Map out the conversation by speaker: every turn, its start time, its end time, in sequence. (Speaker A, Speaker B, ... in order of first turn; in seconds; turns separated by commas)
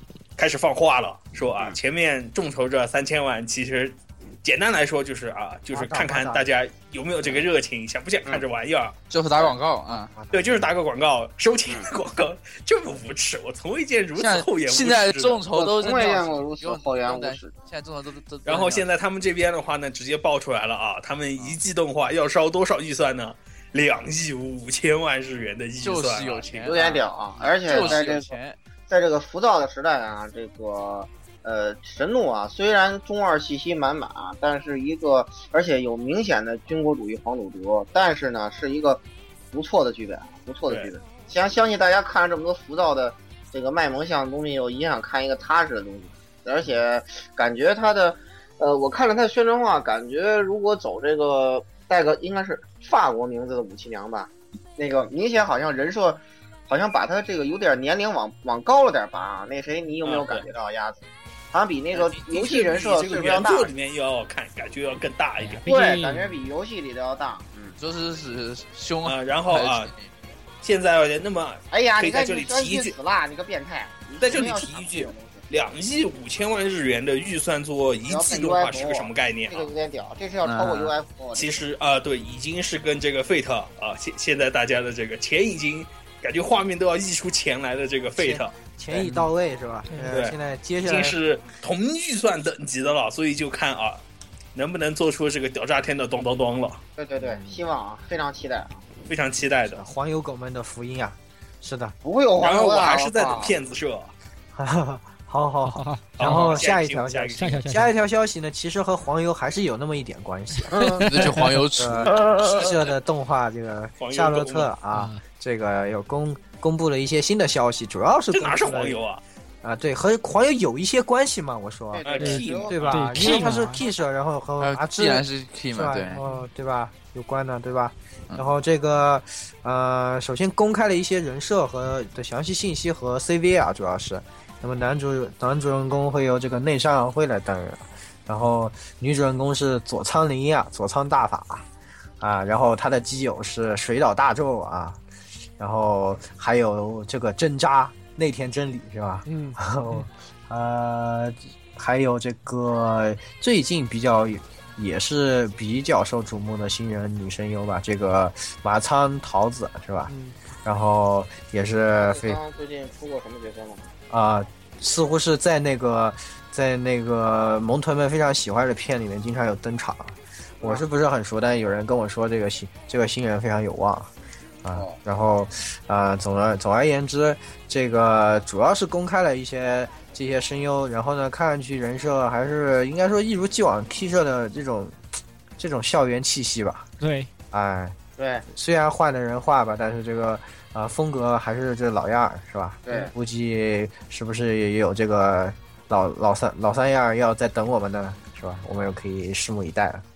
Speaker A: 0.4-9.0, Speaker B: 5.7-6.5, Speaker C: 9.1-10.1, Speaker B: 9.9-10.7, Speaker A: 10.3-15.4, Speaker C: 14.2-18.9, Speaker D: 15.5-17.5, Speaker A: 18.5-26.7, Speaker C: 25.8-28.6, Speaker D: 26.6-28.4, Speaker A: 27.7-28.0, Speaker D: 28.9-63.7, Speaker A: 40.7-40.9, Speaker A: 60.0-60.5, Speaker A: 61.9-65.6, Speaker E: 65.4-66.4, Speaker D: 65.7-67.8, Speaker C: 67.8-70.1, Speaker A: 69.0-69.9, Speaker A: 70.6-73.0, Speaker D: 71.7-75.5, Speaker A: 74.2-79.7, Speaker D: 78.1-81.6, Speaker C: 80.4-80.9, Speaker A: 81.3-88.5, Speaker B: 88.2-91.2, Speaker A: 90.1-94.0, Speaker A: 94.5-96.8, Speaker D: 97.0-98.8, Speaker B: 97.2-97.6, Speaker A: 99.1-99.8, Speaker B: 99.7-102.0, Speaker D: 102.0-103.6, Speaker A: 102.4-104.1, Speaker B: 104.5-111.0, Speaker E: 105.6-106.6, Speaker A: 106.2-107.7, Speaker E: 107.4-107.9, Speaker D: 110.7-111.1, Speaker E: 110.8-111.5, Speaker C: 111.0-112.2, Speaker B: 111.8-119.0, Speaker D: 112.1-112.7, Speaker A: 112.5-112.8, Speaker A: 114.0-114.7, Speaker E: 114.9-115.2, Speaker A: 118.3-119.2, Speaker B: 119.6-141.7, Speaker D: 121.9-122.8, Speaker A: 122.0-123.3, Speaker E: 122.2-123.8, Speaker C: 124.6-126.2, Speaker B: 142.2-145.0, Speaker B: 145.6-160.1, Speaker E: 149.3-150.0, Speaker E: 160.1-160.4, Speaker B: 160.6-162.4, Speaker D: 161.9-163.9, Speaker B: 164.1-174.1, Speaker B: 174.6-185.0, Speaker B: 185.6-186.9, Speaker E: 187.0-187.3, Speaker B: 187.5-188.0, Speaker D: 188.2-188.4, Speaker B: 188.5-200.0, Speaker D: 192.9-193.1